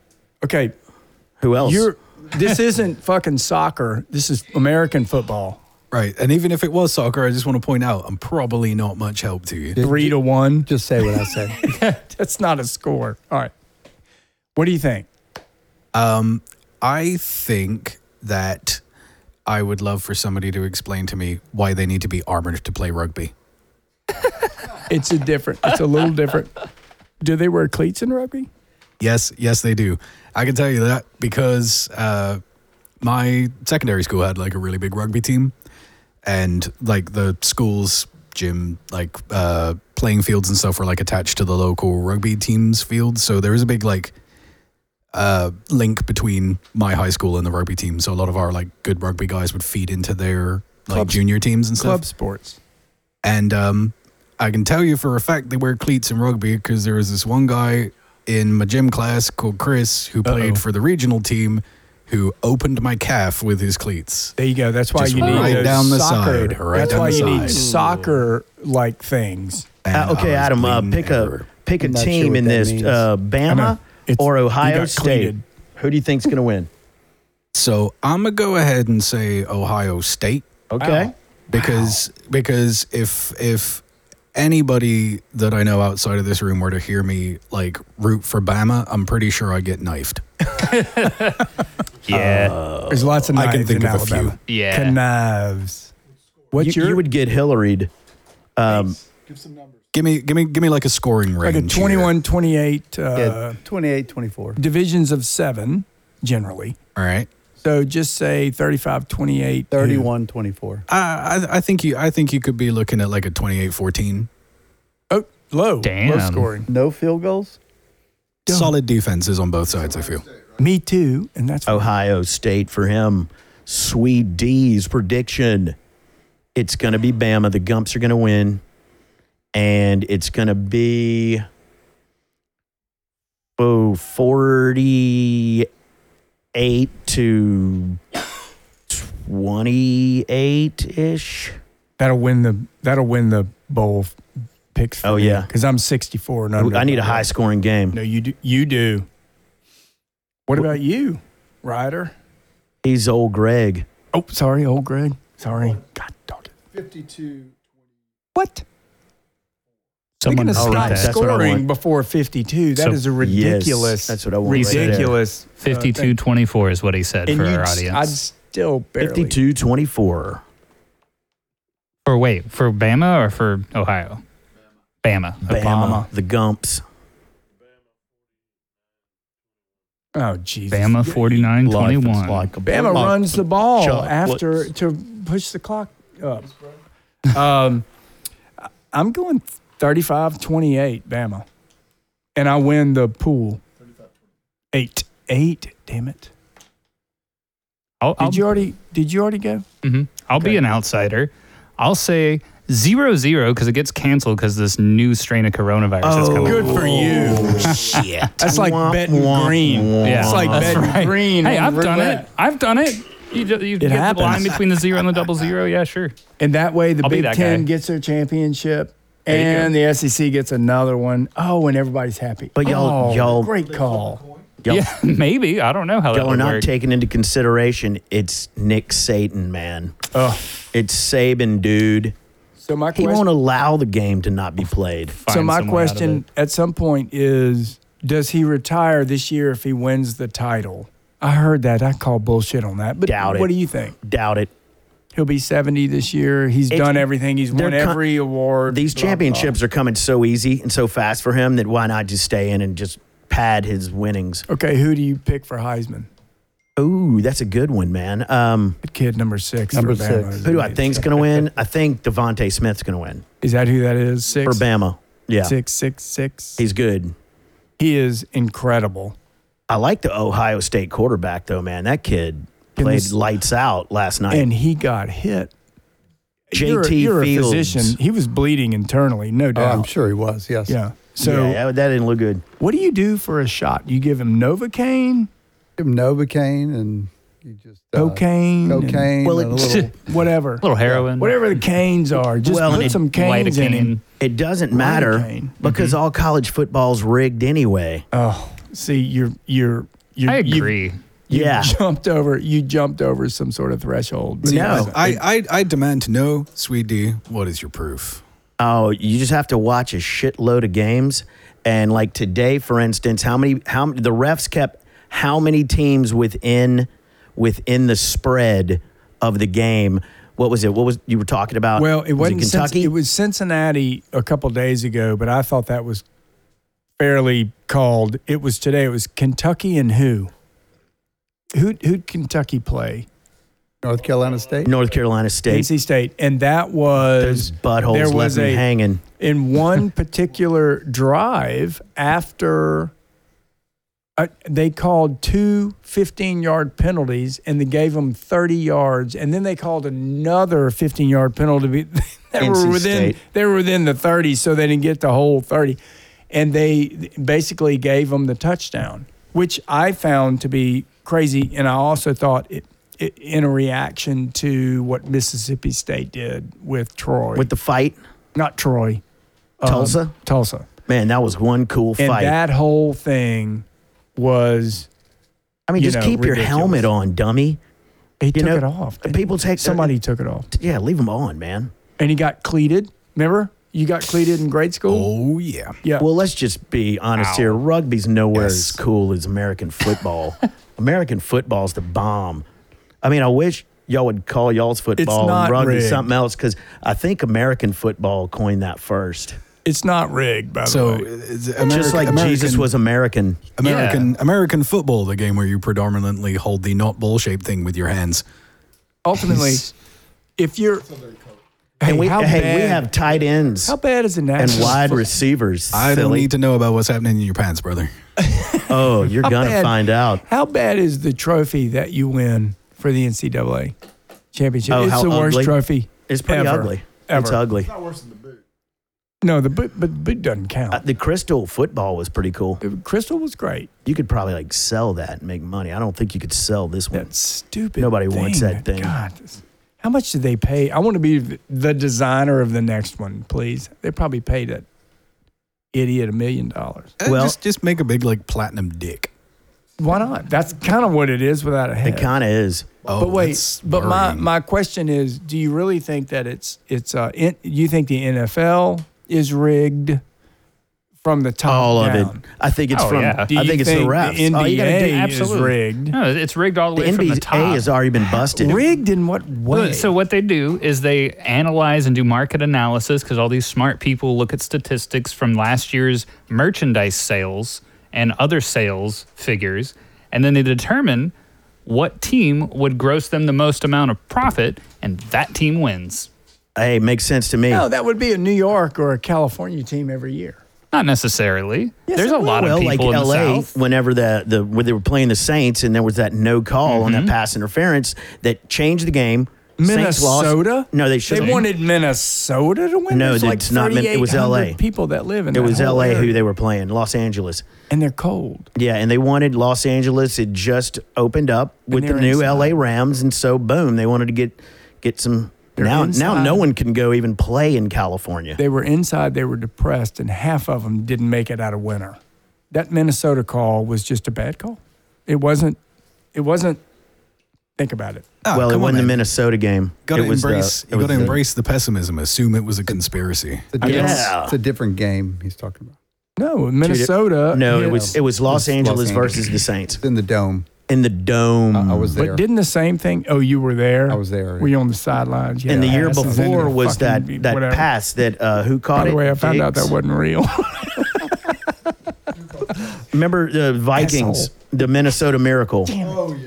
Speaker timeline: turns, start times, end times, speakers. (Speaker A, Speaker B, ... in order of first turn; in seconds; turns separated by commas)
Speaker A: 0.4-0.7, Speaker B: 1.4-1.9, Speaker A: 1.6-5.6, Speaker C: 5.9-9.8, Speaker D: 9.8-11.6, Speaker A: 9.8-10.7, Speaker A: 11.7-13.5, Speaker A: 14.6-15.1, Speaker C: 15.9-18.8, Speaker C: 19.4-23.3, Speaker A: 24.9-26.6, Speaker A: 27.2-28.5, Speaker C: 29.0-32.4, Speaker C: 33.0-35.5, Speaker C: 36.2-44.1, Speaker C: 45.1-52.0, Speaker A: 50.9-51.2, Speaker A: 51.8-52.6, Speaker C: 53.2-64.3, Speaker A: 60.2-60.6, Speaker A: 64.4-69.7, Speaker C: 64.9-67.7, Speaker C: 69.8-71.5, Speaker B: 69.9-76.7, Speaker D: 71.8-73.1, Speaker A: 73.5-75.4, Speaker C: 77.5-80.5, Speaker B: 80.7-81.1, Speaker A: 80.8-81.1, Speaker C: 81.5-90.2, Speaker E: 90.6-91.5, Speaker E: 92.1-92.5, Speaker B: 92.1-93.2, Speaker A: 92.9-95.9, Speaker C: 93.3-94.3, Speaker E: 94.5-95.0, Speaker A: 96.5-97.0, Speaker B: 96.5-97.9, Speaker B: 98.5-99.0, Speaker C: 99.9-102.1, Speaker A: 101.4-103.6, Speaker D: 103.2-104.6, Speaker A: 104.5-106.8, Speaker C: 107.0-107.3, Speaker A: 107.6-110.1, Speaker D: 109.7-110.8, Speaker C: 110.9-114.3, Speaker A: 115.1-116.7, Speaker E: 115.8-116.5, Speaker D: 116.7-117.6, Speaker A: 118.5-118.7, Speaker C: 118.5-120.2, Speaker A: 120.6-121.9, Speaker B: 121.7-125.8, Speaker B: 126.5-128.6, Speaker B: 129.5-131.4, Speaker B: 133.6-135.7, Speaker B: 136.5-138.0, Speaker B: 138.9-141.6, Speaker A: 142.0-144.2, Speaker A: 144.7-147.3, Speaker B: 145.0-145.5, Speaker B: 146.6-148.0, Speaker A: 147.9-149.1, Speaker A: 150.5-152.1, Speaker B: 152.8-153.8, Speaker A: 154.1-156.5, Speaker A: 158.3-158.6, Speaker E: 160.2-161.1, Speaker A: 160.2-166.1, Speaker B: 160.5-161.6, Speaker B: 163.2-165.2, Speaker E: 164.5-168.2, Speaker A: 167.3-169.4, Speaker B: 169.0-170.4, Speaker E: 172.1-174.2, Speaker E: 175.0-175.7, Speaker B: 175.5-176.8, Speaker A: 175.5-176.1, Speaker A: 180.2-181.5, Speaker E: 180.7-182.5, Speaker B: 181.5-184.4, Speaker A: 182.6-186.5, Speaker A: 187.3-187.8, Speaker A: 188.9-191.4, Speaker A: 192.3-193.6, Speaker A: 194.7-196.3, Speaker E: 198.0-198.5, Speaker A: 198.2-199.7, Speaker E: 199.8-207.0, Speaker B: 206.0-207.8, Speaker A: 206.4-207.8, Speaker E: 207.7-208.3, Speaker C: 207.9-208.3, Speaker A: 208.4-212.3, Speaker B: 208.4-210.9, Speaker E: 210.0-216.1, Speaker A: 213.8-214.6, Speaker A: 216.4-224.2, Speaker E: 217.0-217.7, Speaker E: 219.3-219.7, Speaker B: 222.5-223.5, Speaker B: 224.6-224.9, Speaker E: 224.7-226.7, Speaker B: 226.1-229.9, Speaker A: 230.1-230.5, Speaker B: 230.7-232.1, Speaker A: 232.6-233.3, Speaker B: 232.9-235.2, Speaker E: 235.2-236.2, Speaker A: 235.3-243.9, Speaker B: 243.0-244.5, Speaker A: 245.1-249.6, Speaker B: 246.7-248.0, Speaker B: 248.7-254.4, Speaker A: 254.5-256.1, Speaker B: 256.8-258.8, Speaker A: 258.8-261.2, Speaker D: 259.7-260.5, Speaker B: 260.4-263.2, Speaker A: 263.4-264.6, Speaker B: 264.4-265.5, Speaker A: 265.4-266.6, Speaker B: 266.6-267.1, Speaker A: 267.8-269.1, Speaker B: 269.7-274.5, Speaker A: 272.8-273.1, Speaker A: 274.3-275.5, Speaker A: 276.5-279.9, Speaker B: 276.5-278.0, Speaker D: 279.5-280.8, Speaker A: 280.7-281.6, Speaker B: 281.2-282.4, Speaker A: 282.6-285.3, Speaker D: 285.8-289.9, Speaker A: 287.9-290.6, Speaker B: 289.2-289.9, Speaker E: 290.6-291.5, Speaker A: 291.2-293.9, Speaker B: 292.4-293.0, Speaker E: 292.7-294.0, Speaker B: 294.2-298.0, Speaker A: 294.7-295.6, Speaker E: 295.6-295.9, Speaker A: 298.1-300.7, Speaker E: 300.3-301.0, Speaker A: 301.3-305.1, Speaker B: 301.3-301.8, Speaker B: 304.4-305.1, Speaker C: 304.5-308.2, Speaker B: 308.6-322.9, Speaker A: 321.8-326.0, Speaker A: 327.0-330.3, Speaker A: 331.5-333.1, Speaker D: 333.8-334.8, Speaker B: 334.6-335.7, Speaker A: 335.5-338.6, Speaker B: 337.2-339.0, Speaker A: 339.2-342.9, Speaker A: 344.2-355.8, Speaker B: 352.4-353.2, Speaker A: 356.3-367.5, Speaker B: 367.3-368.0, Speaker A: 368.3-369.0, Speaker A: 369.6-370.6, Speaker B: 369.6-370.1, Speaker B: 370.9-372.4, Speaker A: 372.0-373.6, Speaker A: 374.1-374.9, Speaker B: 375.7-377.6, Speaker A: 375.8-376.9, Speaker A: 378.2-380.5, Speaker B: 378.3-379.9, Speaker B: 380.5-381.7, Speaker A: 382.0-385.1, Speaker C: 384.9-385.8, Speaker B: 386.0-392.4, Speaker E: 387.2-387.6, Speaker C: 388.4-388.6, Speaker B: 393.0-399.4, Speaker A: 395.0-396.1, Speaker A: 399.6-401.1, Speaker C: 400.6-402.7, Speaker B: 401.6-403.5, Speaker C: 403.6-408.2, Speaker E: 403.6-404.1, Speaker A: 409.0-409.7, Speaker A: 410.4-410.9, Speaker A: 411.8-412.9, Speaker B: 411.8-413.7, Speaker A: 413.6-415.1, Speaker B: 414.4-416.3, Speaker C: 415.7-417.9, Speaker A: 418.2-423.7, Speaker B: 418.7-420.2, Speaker A: 424.3-427.4, Speaker B: 424.7-427.8, Speaker A: 429.2-430.8, Speaker B: 430.7-432.6, Speaker A: 432.6-433.7, Speaker B: 433.8-437.1, Speaker A: 436.9-444.6, Speaker B: 437.8-438.9, Speaker A: 445.7-446.9, Speaker C: 447.0-449.1, Speaker B: 447.0-447.4, Speaker A: 449.8-452.1, Speaker B: 451.8-452.8, Speaker C: 452.9-454.3, Speaker A: 453.0-460.0, Speaker A: 461.0-462.2, Speaker B: 461.4-464.9, Speaker E: 462.7-463.3, Speaker A: 463.3-465.9, Speaker E: 464.8-467.7, Speaker B: 466.8-468.7, Speaker A: 468.3-469.9, Speaker E: 469.5-481.1, Speaker E: 481.6-486.1, Speaker B: 486.6-487.6, Speaker A: 487.5-490.4, Speaker E: 490.7-493.5, Speaker A: 491.9-492.4, Speaker B: 492.0-501.4, Speaker E: 496.7-497.1, Speaker A: 499.6-506.2, Speaker E: 501.2-501.4, Speaker B: 502.9-504.6, Speaker B: 505.3-507.4, Speaker A: 507.7-508.5, Speaker B: 508.5-518.4, Speaker A: 511.7-512.6, Speaker A: 515.6-516.5, Speaker A: 518.4-522.0, Speaker A: 522.5-525.6, Speaker A: 526.1-526.6, Speaker A: 527.6-528.1, Speaker C: 528.2-529.0, Speaker B: 528.3-531.2, Speaker C: 529.9-533.8, Speaker D: 530.9-531.2, Speaker D: 533.5-535.7, Speaker B: 533.6-534.4, Speaker A: 536.2-537.9, Speaker B: 536.6-539.8, Speaker D: 537.6-540.5, Speaker B: 540.7-542.0, Speaker D: 541.5-542.2, Speaker A: 542.0-547.7, Speaker D: 543.9-544.5, Speaker B: 545.5-549.7, Speaker D: 545.5-546.0, Speaker A: 548.7-551.3, Speaker B: 552.7-555.8, Speaker A: 553.8-554.3, Speaker A: 555.6-556.1